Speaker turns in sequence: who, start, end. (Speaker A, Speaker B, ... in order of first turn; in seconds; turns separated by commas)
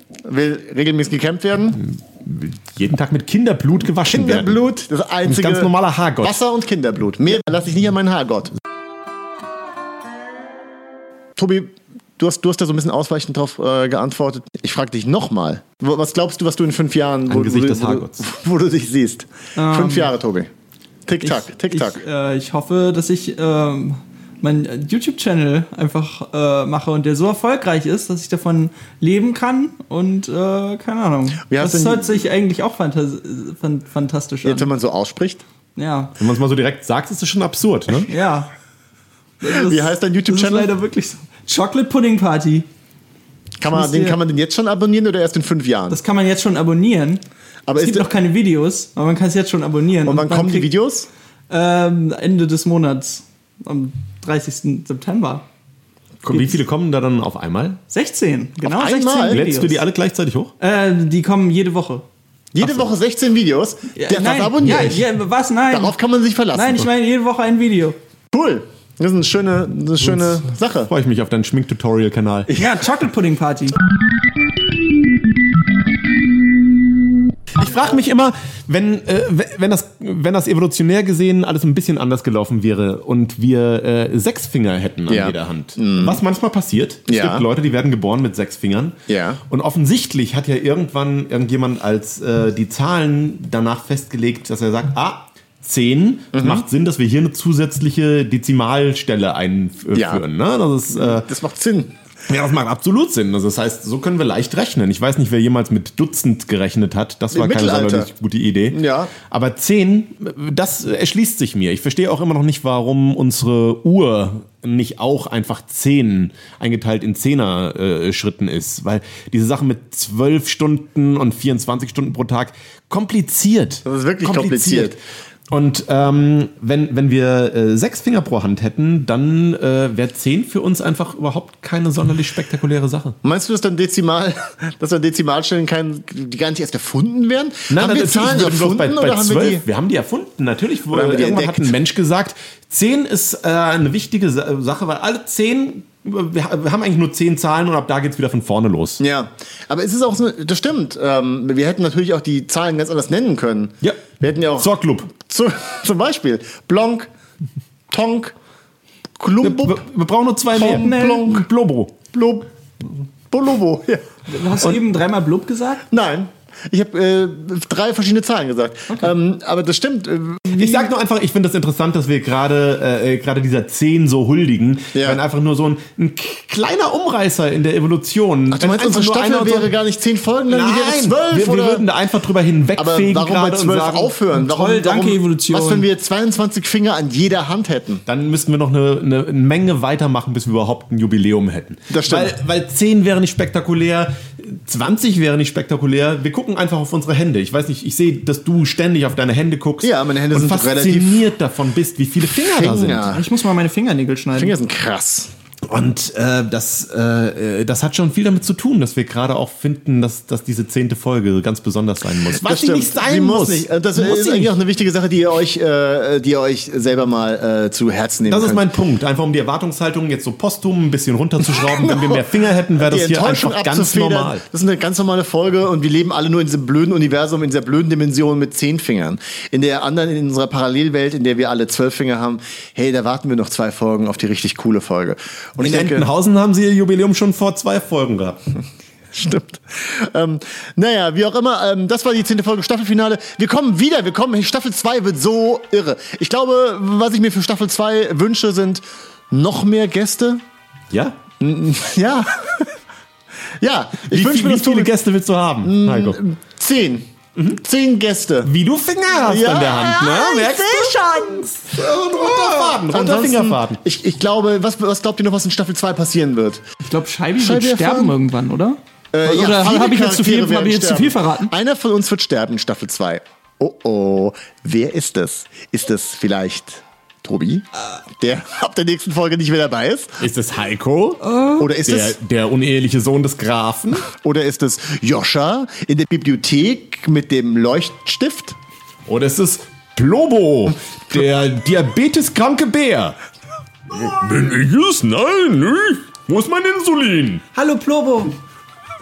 Speaker A: 0.2-1.8, Speaker B: 1.8-4.6, Speaker A: 4.0-5.7, Speaker B: 5.3-6.4, Speaker A: 6.2-8.5, Speaker A: 11.3-20.5, Speaker B: 17.3-18.2, Speaker C: 19.6-20.1, Speaker A: 21.1-22.0, Speaker C: 21.2-34.7, Speaker A: 31.5-32.2, Speaker A: 34.4-35.4, Speaker C: 35.8-36.1, Speaker B: 36.2-38.1, Speaker C: 38.1-38.5, Speaker C: 39.4-42.7, Speaker A: 39.5-40.7, Speaker A: 43.6-46.0, Speaker C: 43.7-44.2, Speaker C: 45.9-47.2, Speaker A: 47.7-48.1, Speaker C: 47.7-50.7, Speaker A: 50.0-51.1, Speaker C: 51.5-55.5, Speaker B: 56.2-57.8, Speaker C: 56.3-56.5, Speaker C: 57.9-59.8, Speaker A: 58.6-59.4, Speaker B: 59.3-60.5, Speaker C: 60.6-62.0, Speaker A: 62.5-65.0, Speaker C: 64.0-66.0, Speaker A: 65.7-66.9, Speaker C: 66.5-68.0, Speaker A: 68.3-70.9, Speaker B: 70.1-72.5, Speaker C: 72.5-73.8, Speaker B: 77.5-89.0, Speaker A: 85.1-86.2, Speaker A: 87.1-87.4, Speaker A: 89.1-89.4, Speaker B: 89.5-101.3, Speaker A: 96.3-96.6, Speaker A: 99.9-100.2, Speaker A: 100.9-101.9, Speaker B: 102.3-125.0, Speaker A: 107.3-108.1, Speaker A: 108.7-109.1, Speaker A: 123.8-125.0, Speaker B: 125.5-133.2, Speaker A: 133.2-139.7, Speaker B: 137.7-149.0, Speaker A: 140.9-141.7, Speaker A: 149.0-157.1, Speaker B: 154.6-155.1, Speaker A: 157.9-158.3, Speaker A: 159.2-159.8, Speaker B: 159.4-161.9, Speaker C: 160.5-161.3, Speaker A: 160.5-161.5, Speaker A: 162.1-164.8, Speaker C: 164.3-165.8, Speaker A: 165.9-170.9, Speaker B: 170.5-179.7, Speaker A: 174.9-175.2, Speaker A: 178.5-181.8, Speaker B: 180.5-184.1, Speaker A: 182.8-188.0, Speaker C: 184.3-185.9, Speaker B: 188.1-203.1, Speaker A: 191.9-192.3, Speaker A: 199.8-201.3, Speaker A: 202.3-203.3, Speaker C: 203.1-204.6, Speaker A: 204.3-205.3, Speaker B: 205.7-214.5, Speaker A: 212.2-218.7, Speaker B: 218.3-224.4, Speaker A: 221.5-236.1, Speaker B: 235.6-238.4, Speaker A: 239.1-250.4, Speaker B: 250.9-251.2, Speaker A: 251.4-252.7, Speaker A: 253.6-254.9, Speaker B: 254.0-256.2, Speaker A: 255.6-258.5, Speaker B: 257.4-257.6, Speaker B: 258.4-263.8, Speaker A: 259.2-261.4, Speaker A: 262.1-266.6, Speaker C: 266.8-271.5, Speaker A: 267.4-268.1, Speaker A: 269.1-277.7, Speaker A: 278.2-280.2, Speaker B: 280.2-281.2, Speaker C: 281.2-281.6, Speaker A: 281.6-282.2, Speaker B: 281.8-284.1, Speaker A: 284.0-288.6, Speaker B: 289.1-293.2, Speaker B: 293.9-297.4, Speaker C: 297.5-298.3